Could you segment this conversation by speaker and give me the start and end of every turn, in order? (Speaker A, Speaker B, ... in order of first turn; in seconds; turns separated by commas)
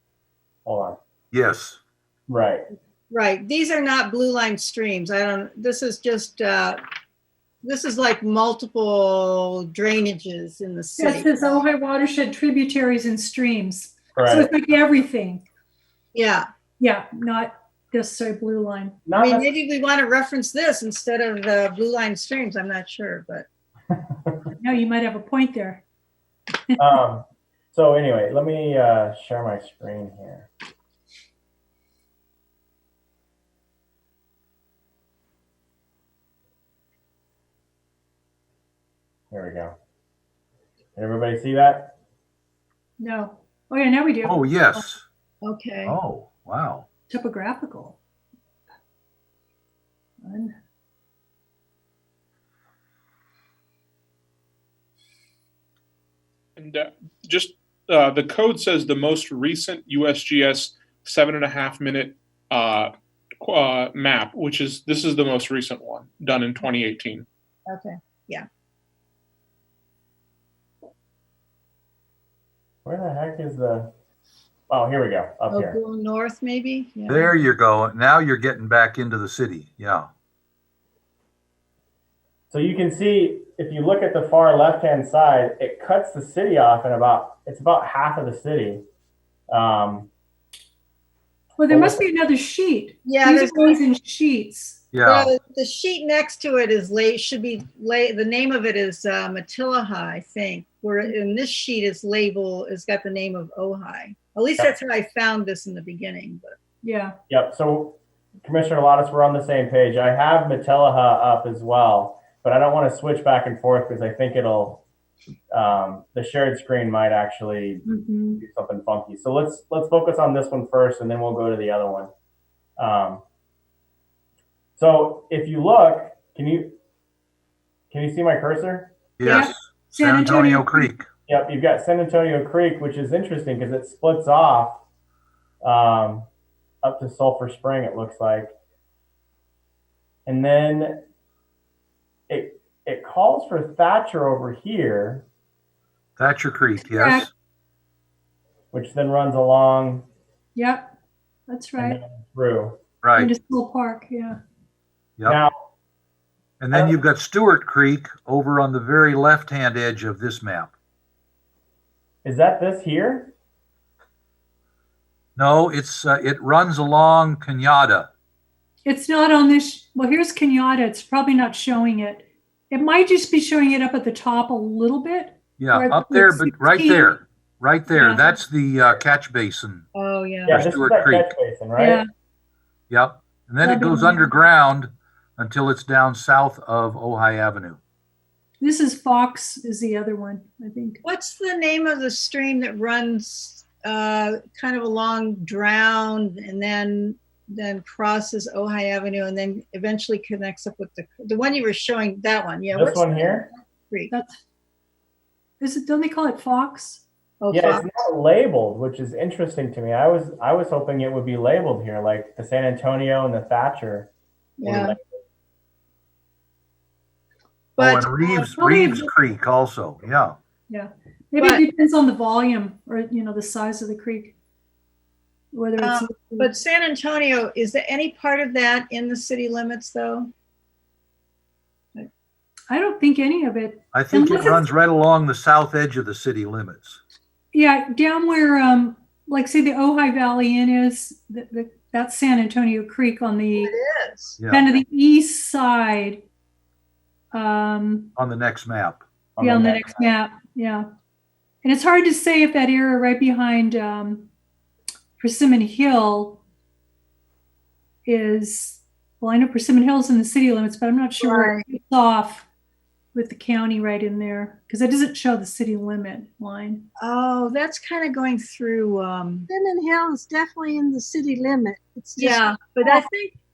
Speaker A: 0.6-1.0, Speaker B: 1.3-1.8, Speaker A: 2.3-2.6, Speaker C: 3.1-6.8, Speaker C: 7.6-11.6, Speaker D: 11.0-15.4, Speaker A: 14.1-14.5, Speaker C: 16.1-16.4, Speaker D: 16.8-19.0, Speaker A: 19.1-19.5, Speaker C: 19.2-23.4, Speaker A: 23.9-24.5, Speaker D: 24.6-25.8, Speaker A: 26.8-30.5, Speaker A: 39.3-39.7, Speaker A: 41.0-42.0, Speaker D: 43.0-44.8, Speaker B: 44.2-45.0, Speaker C: 45.4-46.0, Speaker B: 45.9-46.9, Speaker D: 47.1-48.0, Speaker D: 50.2-50.5, Speaker E: 56.6-67.2, Speaker C: 67.7-68.5, Speaker A: 72.8-73.9, Speaker A: 74.7-75.8, Speaker C: 75.5-77.4, Speaker B: 77.1-80.1, Speaker A: 82.5-88.8, Speaker A: 89.5-90.1, Speaker D: 91.6-94.8, Speaker A: 91.7-92.0, Speaker C: 93.0-93.8, Speaker B: 94.9-95.3, Speaker C: 95.0-106.6, Speaker D: 106.8-107.1, Speaker A: 107.3-114.8, Speaker A: 115.5-122.1, Speaker D: 117.8-118.4, Speaker A: 122.8-123.2, Speaker A: 124.8-126.7, Speaker A: 127.9-128.9, Speaker B: 129.2-131.1, Speaker D: 129.2-130.9, Speaker A: 131.3-134.8, Speaker A: 135.6-136.3, Speaker A: 136.8-138.5, Speaker A: 140.2-141.0, Speaker A: 142.3-145.2, Speaker B: 146.2-147.3, Speaker D: 146.8-147.3, Speaker A: 148.7-150.1, Speaker D: 150.5-150.9, Speaker D: 151.5-152.0, Speaker A: 151.8-152.8, Speaker B: 153.0-153.3, Speaker D: 153.2-154.4, Speaker A: 155.2-155.5, Speaker B: 156.6-160.7, Speaker A: 156.7-157.0, Speaker A: 162.2-163.3, Speaker B: 165.3-168.1, Speaker D: 168.8-177.2, Speaker B: 175.6-179.8, Speaker D: 177.9-178.4, Speaker C: 179.9-180.6, Speaker A: 180.4-182.0, Speaker B: 180.5-181.3, Speaker D: 181.8-182.0, Speaker B: 182.9-187.8, Speaker D: 183.6-184.3, Speaker D: 188.6-191.0, Speaker C: 191.0-204.1, Speaker A: 202.7-203.5, Speaker D: 204.1-204.4, Speaker D: 205.6-207.0, Speaker C: 207.4-207.9, Speaker A: 207.5-214.1, Speaker C: 214.6-214.9, Speaker A: 214.6-215.1, Speaker C: 217.8-218.5, Speaker B: 217.8-220.4, Speaker D: 218.6-219.1, Speaker D: 220.7-224.3, Speaker C: 221.4-221.6, Speaker D: 225.5-226.5, Speaker C: 225.8-230.3, Speaker D: 232.7-234.7, Speaker B: 233.9-237.0, Speaker D: 237.5-243.7, Speaker C: 243.5-244.4, Speaker B: 244.4-244.7, Speaker D: 244.5-246.2, Speaker D: 247.3-248.1, Speaker B: 248.2-249.0, Speaker A: 249.4-250.1, Speaker D: 249.4-250.8, Speaker D: 251.6-254.3, Speaker D: 255.2-256.4, Speaker D: 258.1-262.4, Speaker C: 261.2-261.6, Speaker D: 263.1-266.9, Speaker C: 267.0-269.5, Speaker F: 269.5-273.0, Speaker C: 272.1-273.3